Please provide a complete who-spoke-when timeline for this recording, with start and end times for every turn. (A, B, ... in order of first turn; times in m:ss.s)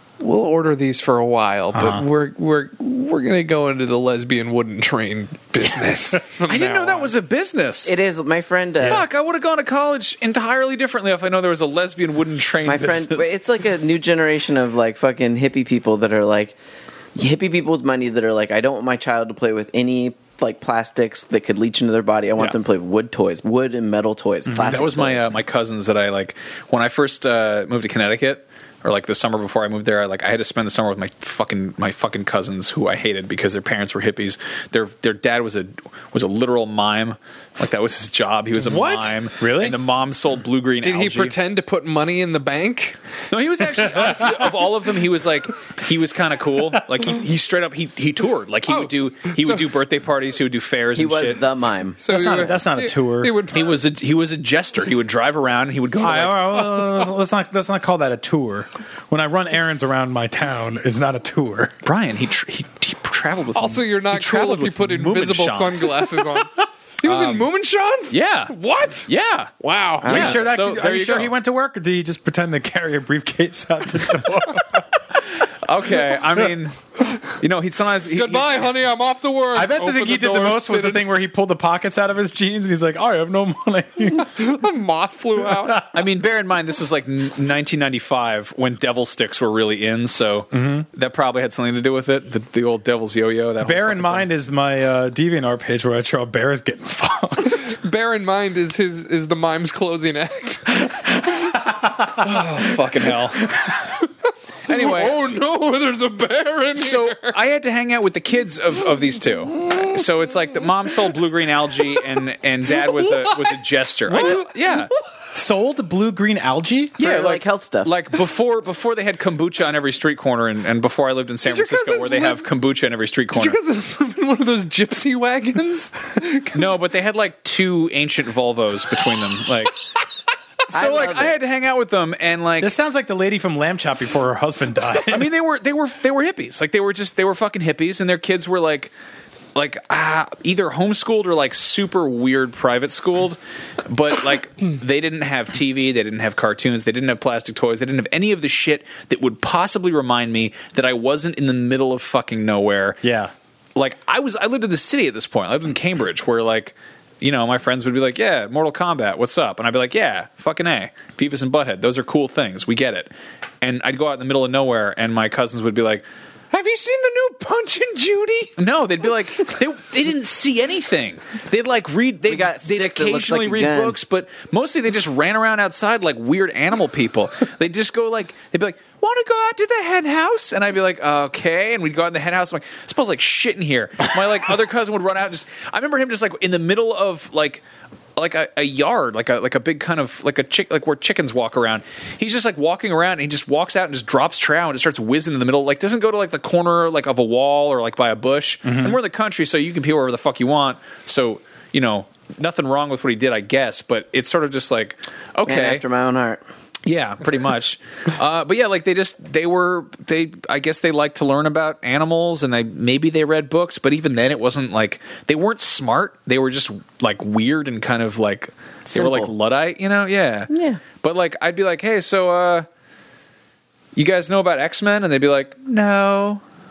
0:00.2-0:07.1 A
0:01.7-0:02.0 B
0:06.5-0:08.0 C
0:07.8-0:09.0 D
0:08.8-0:13.4 C
0:12.6-0:16.6 D
0:17.2-0:25.3 D
0:24.5-0:24.8 B
0:24.6-0:41.4 C
0:38.6-0:39.2 A
0:39.4-0:39.8 B
0:40.8-0:43.0 A
0:43.3-0:51.7 C
0:48.7-0:49.7 A
0:51.0-0:52.0 D
0:52.0-0:53.8 A
0:52.1-0:53.4 B
0:53.5-0:56.8 C
0:56.0-1:01.8 B
1:01.8-1:06.1 C
1:03.6-1:09.1 A
1:07.0-1:07.5 C
1:08.1-1:08.5 C
1:09.1-1:11.3 C
1:09.6-1:10.4 A
1:10.0-1:14.8 B
1:10.0-1:10.3 D
1:15.3-1:18.7 C
1:18.1-1:21.1 A
1:19.5-1:24.3 B
1:24.1-1:25.9 A
1:25.9-1:34.3 C
1:30.5-1:30.9 B
1:33.6-1:37.6 B
1:37.5-1:41.6 A
1:41.3-1:41.9 B
1:42.2-1:43.5 C
1:42.2-1:42.7 A
1:43.7-1:44.1 A
1:44.7-1:45.2 C
1:44.7-1:47.4 A
1:46.8-1:54.9 C
1:52.8-1:53.6 A
1:54.1-1:54.4 B
1:54.1-1:54.8 A
1:55.3-1:57.0 B
1:57.0-1:57.9 D
1:57.0-2:03.6 C
2:01.4-2:02.5 A
2:03.3-2:06.7 A
2:06.5-2:09.8 C
2:10.7-2:12.7 C
2:10.7-2:11.4 D
2:12.6-2:15.3 B
2:15.0-2:18.9 C
2:19.6-2:33.0 C
2:33.0-2:33.3 B
2:33.8-2:46.0 C
2:46.5-2:48.5 A
2:48.6-3:07.6 C
2:52.3-2:54.0 D
3:08.2-3:25.8 C
3:18.6-3:19.0 B
3:25.5-3:26.4 D
3:26.9-3:42.7 C
3:38.9-3:39.3 D
3:40.5-3:40.8 D
3:44.0-3:46.4 C